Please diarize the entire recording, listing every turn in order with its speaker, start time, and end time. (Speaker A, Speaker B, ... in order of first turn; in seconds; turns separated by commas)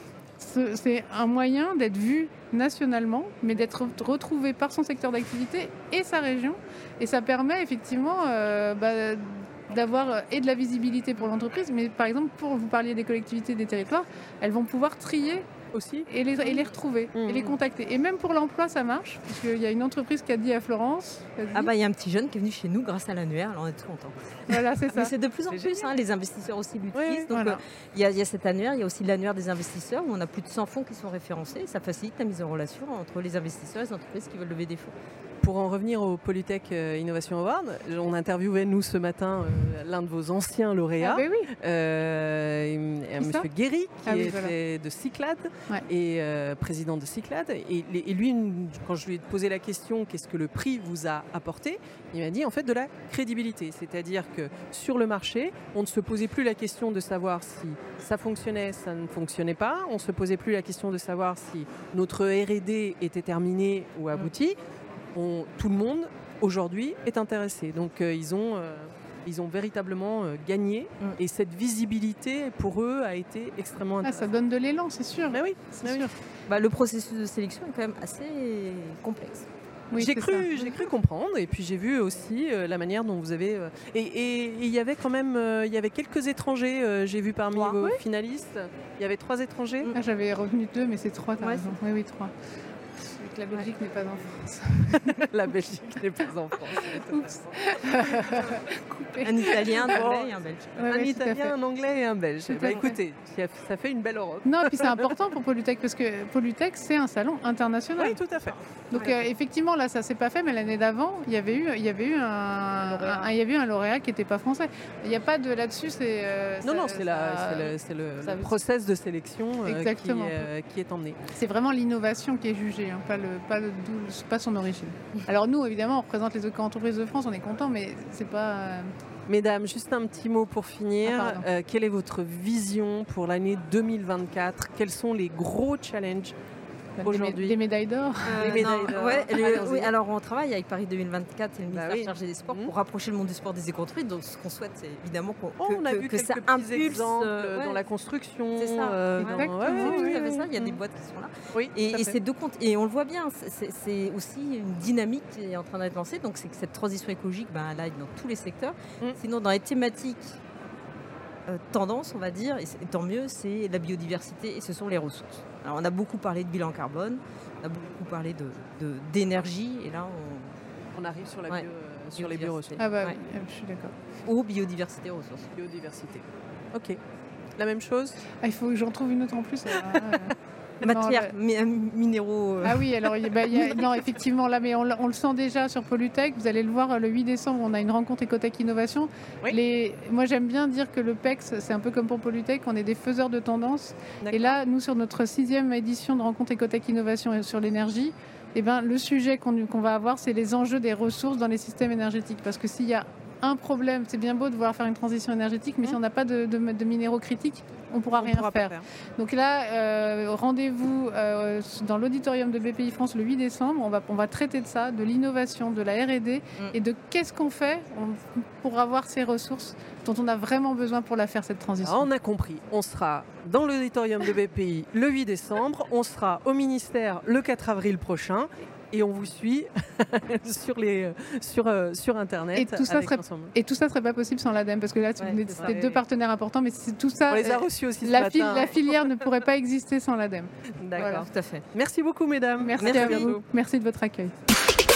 Speaker A: 0.4-15.5, Speaker B: 15.7-16.6, Speaker A: 16.1-21.7, Speaker B: 17.1-17.6, Speaker C: 21.5-34.9, Speaker A: 24.5-25.1, Speaker B: 25.5-25.9, Speaker B: 26.9-27.3, Speaker A: 27.3-27.6, Speaker B: 35.4-64.6, Speaker A: 41.0-41.5, Speaker A: 43.2-43.5, Speaker A: 44.0-44.5, Speaker B: 65.1-74.3, Speaker A: 74.0-76.2, Speaker B: 75.3-76.1, Speaker C: 76.5-79.5, Speaker A: 79.9-80.7, Speaker B: 79.9-89.9, Speaker C: 87.5-87.8, Speaker A: 89.9-92.3, Speaker C: 91.4-91.7, Speaker A: 93.0-95.2, Speaker B: 94.9-98.5, Speaker A: 96.8-100.0, Speaker C: 99.2-100.9, Speaker B: 99.8-100.3, Speaker A: 100.8-101.5, Speaker B: 100.9-105.1, Speaker A: 102.5-103.0, Speaker A: 104.4-108.2, Speaker B: 108.0-108.5, Speaker A: 108.9-118.5, Speaker C: 112.8-113.3, Speaker B: 116.6-121.2, Speaker A: 119.7-120.5, Speaker A: 121.3-128.9, Speaker B: 129.3-136.3, Speaker A: 131.0-131.4, Speaker A: 137.0-138.7, Speaker B: 137.0-137.6, Speaker C: 138.3-147.8, Speaker B: 138.3-139.9, Speaker B: 141.7-142.7, Speaker B: 145.6-150.8, Speaker C: 148.5-160.3, Speaker A: 149.2-150.2, Speaker B: 151.5-152.2, Speaker C: 161.5-170.5, Speaker B: 170.9-172.8, Speaker C: 171.5-173.2, Speaker A: 172.8-173.9, Speaker C: 174.2-175.5, Speaker B: 175.6-177.0, Speaker B: 177.6-178.2, Speaker A: 178.4-181.3, Speaker B: 179.7-180.3, Speaker C: 180.8-182.9, Speaker A: 182.6-222.1, Speaker B: 183.4-184.0, Speaker B: 194.2-194.6, Speaker B: 208.2-208.8, Speaker B: 221.8-233.5, Speaker A: 232.5-241.3, Speaker C: 235.2-235.7, Speaker B: 235.5-236.0, Speaker B: 237.3-239.1, Speaker B: 240.8-243.4, Speaker C: 241.0-241.7, Speaker A: 242.6-244.3, Speaker C: 242.8-243.4